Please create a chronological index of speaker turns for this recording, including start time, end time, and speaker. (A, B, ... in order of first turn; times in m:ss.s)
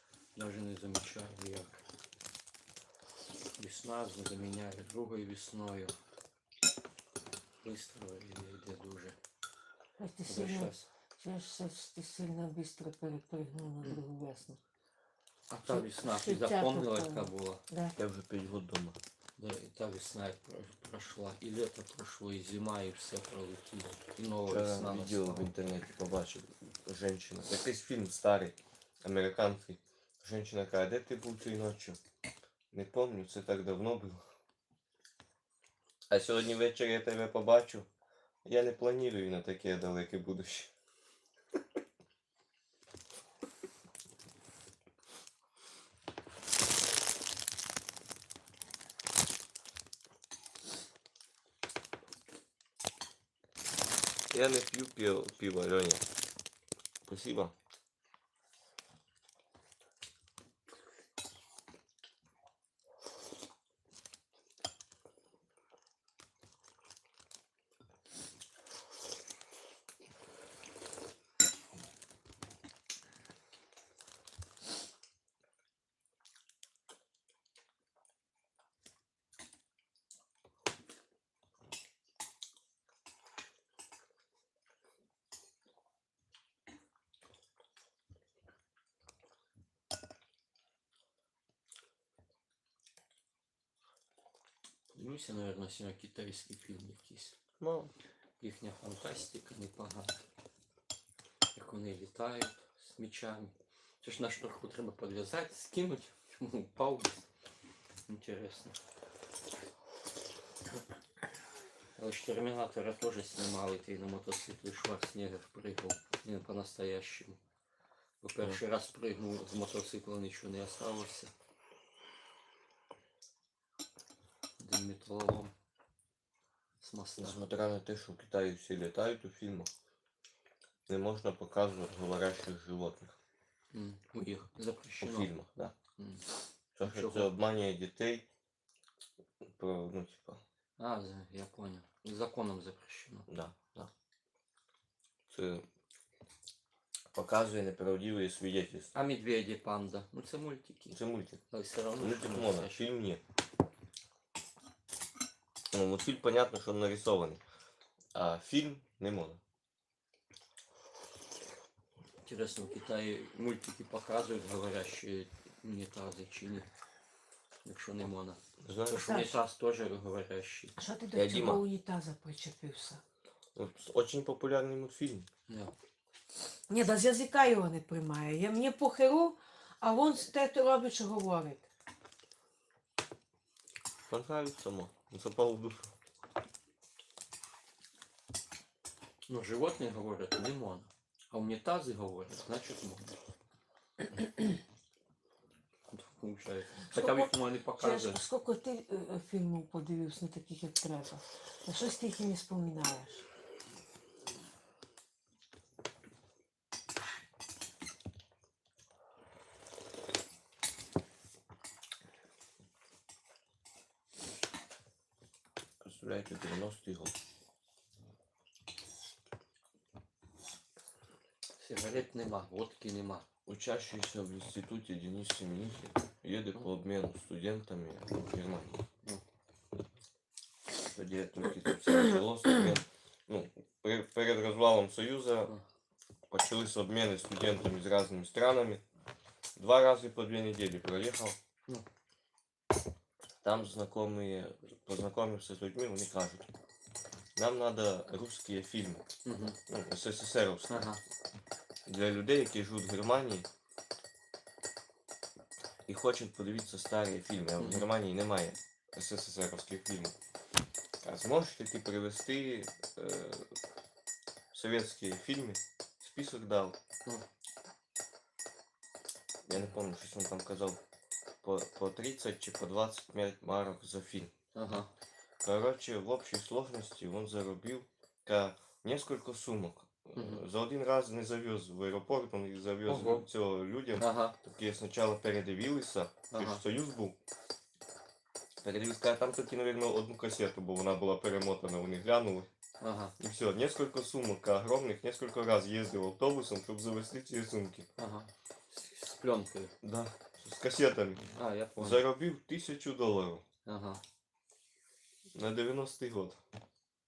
0:00.3-0:01.8 A
0:03.6-0:06.0 A
0:07.6-0:09.2 A
0:10.0-0:14.6 B
0:10.2-0:10.9 A
0:15.5-0:17.6 A
0:15.7-0:18.0 B
0:18.0-0:19.0 C
0:19.4-0:25.5 A
0:24.5-0:32.0 C
0:32.7-0:34.2 C
0:36.1-0:37.9 C
0:38.4-0:40.7 C
0:54.3-0:56.0 C
0:57.0-0:57.5 C
1:34.9-1:37.4 A
1:37.6-1:37.9 C
1:38.4-1:40.2 A
1:41.5-1:47.2 A
1:48.1-1:48.8 A
1:52.0-1:57.4 A
1:58.2-2:01.3 A
2:04.6-2:05.5 A
2:06.8-2:07.4 A
2:07.2-2:09.7 C
2:10.9-2:13.2 C
2:13.7-2:15.3 A
2:15.0-2:15.7 C
2:16.0-2:16.2 A
2:16.8-2:18.3 C
2:16.8-2:17.3 A
2:19.4-2:20.4 C
2:20.8-2:23.3 A
2:23.3-2:23.9 C
2:25.3-2:25.6 C
2:27.1-2:28.9 C
2:28.9-2:31.0 A
2:30.9-2:31.4 C
2:31.5-2:32.8 A
2:32.0-2:33.2 C
2:35.7-2:37.4 C
2:38.1-2:39.4 C
2:42.2-2:46.7 A
2:47.6-2:50.7 A
2:48.6-2:49.1 C
2:49.0-2:49.4 B
2:50.8-2:53.0 B
2:51.1-2:51.6 C
2:53.6-2:55.3 C
2:55.5-2:55.7 A
2:56.7-3:01.7 B
3:04.1-3:05.9 C
3:09.3-3:13.2 A
3:15.9-3:18.2 A
3:16.9-3:23.2 B
3:35.8-3:37.2 C
3:41.6-3:43.2 A
3:43.5-3:48.8 C
3:50.9-3:55.5 C
3:56.3-3:58.8 C
3:59.6-4:01.4 C
4:03.4-4:06.5 C
4:07.4-4:09.0 C
4:09.2-4:09.6 A
4:09.7-4:10.9 C
4:10.7-4:11.0 A
4:11.9-4:13.5 C
4:15.9-4:20.1 C
4:17.6-4:17.9 A
4:21.0-4:23.6 C
4:24.5-4:26.8 C
4:29.5-4:30.8 C
4:31.4-4:34.3 C
4:34.5-4:34.9 A
4:35.4-4:47.2 C
4:40.2-4:40.4 A
4:42.9-4:43.2 A
4:44.0-4:44.4 A
4:46.3-4:46.6 A
4:48.6-4:52.5 C
4:52.8-4:53.1 A
4:53.2-4:57.9 C
4:58.0-4:59.7 A
4:59.8-5:01.2 C
5:01.4-5:02.0 A
5:01.8-5:03.4 C
5:03.6-5:04.0 A
5:05.4-5:06.4 C